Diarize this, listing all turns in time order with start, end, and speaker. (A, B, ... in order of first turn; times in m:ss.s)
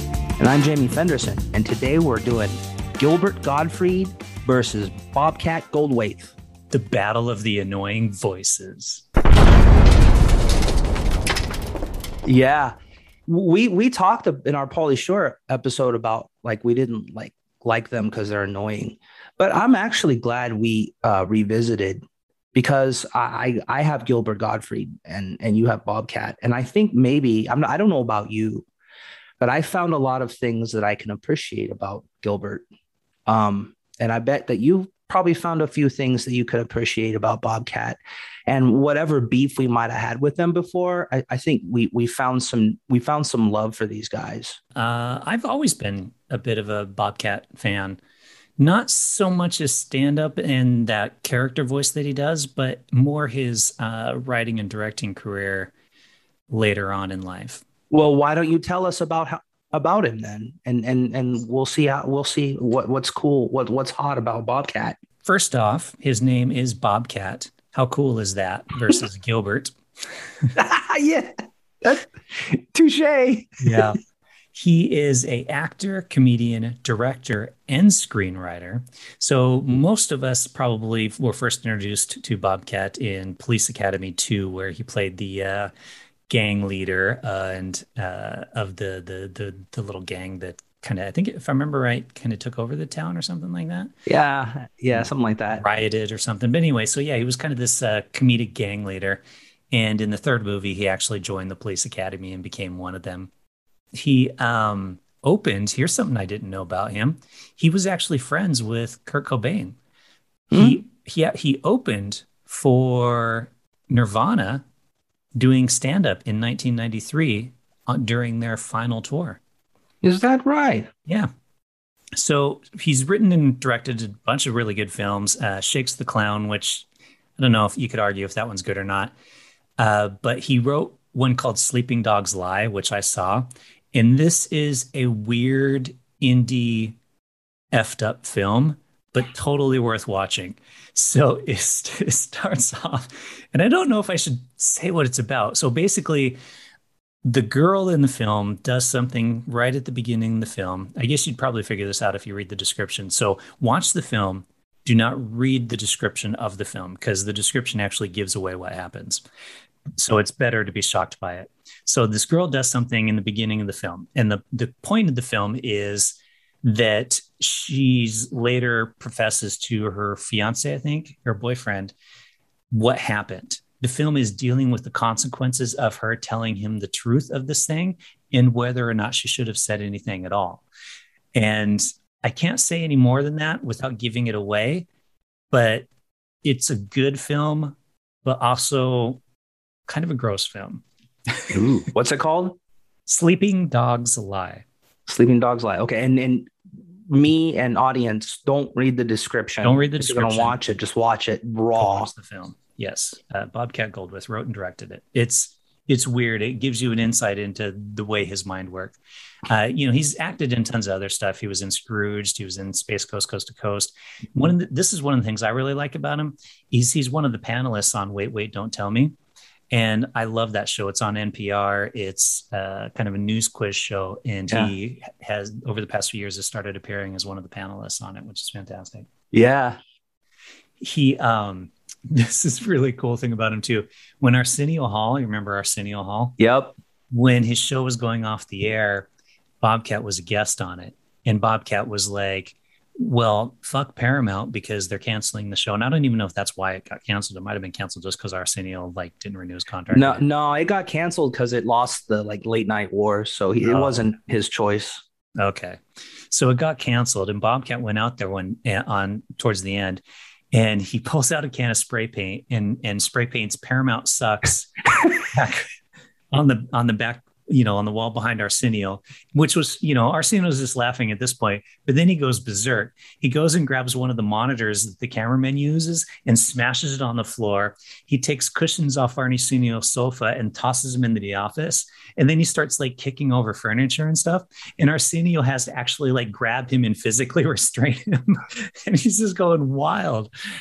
0:00.4-0:06.3 A
0:06.7-0:09.0 B
0:12.2-0:12.7 A
0:13.3-0:22.0 A
0:22.5-0:28.6 A
0:29.4-0:32.6 A
0:33.3-0:44.6 A
0:44.8-0:48.0 B
0:48.6-0:55.7 B
0:56.5-0:57.6 B
0:57.9-1:05.0 A
1:05.2-1:09.7 B
1:10.6-1:13.9 A
1:13.6-1:14.0 B
1:14.5-1:25.7 B
1:26.3-1:33.9 B
1:34.1-1:35.6 A
1:34.9-1:43.3 B
1:43.9-1:49.8 B
1:50.5-1:50.8 A
1:50.5-1:54.6 B
1:55.4-1:59.4 B
2:00.0-2:00.9 A
2:02.2-2:09.1 B
2:09.8-2:17.0 B
2:17.7-2:26.4 B
2:27.2-2:39.2 B
2:40.0-2:51.9 B
2:52.7-3:00.7 B
3:01.3-3:04.9 B
3:05.5-3:05.9 B
3:06.4-3:09.2 B
3:09.9-3:11.6 B
3:11.5-3:12.6 A
3:13.1-3:14.6 B
3:15.1-3:16.5 A
3:17.1-3:22.1 A
3:19.6-3:20.6 B
3:21.8-3:39.1 B
3:39.7-3:49.1 B
3:44.5-3:44.7 A
3:49.3-3:49.8 A
3:50.8-3:56.4 B
3:56.4-3:56.7 A
3:57.1-3:59.1 B
3:59.6-4:10.2 B
4:09.9-4:15.0 A
4:13.6-4:14.0 B
4:15.4-4:24.8 B
4:25.3-4:25.7 B
4:26.3-4:50.3 B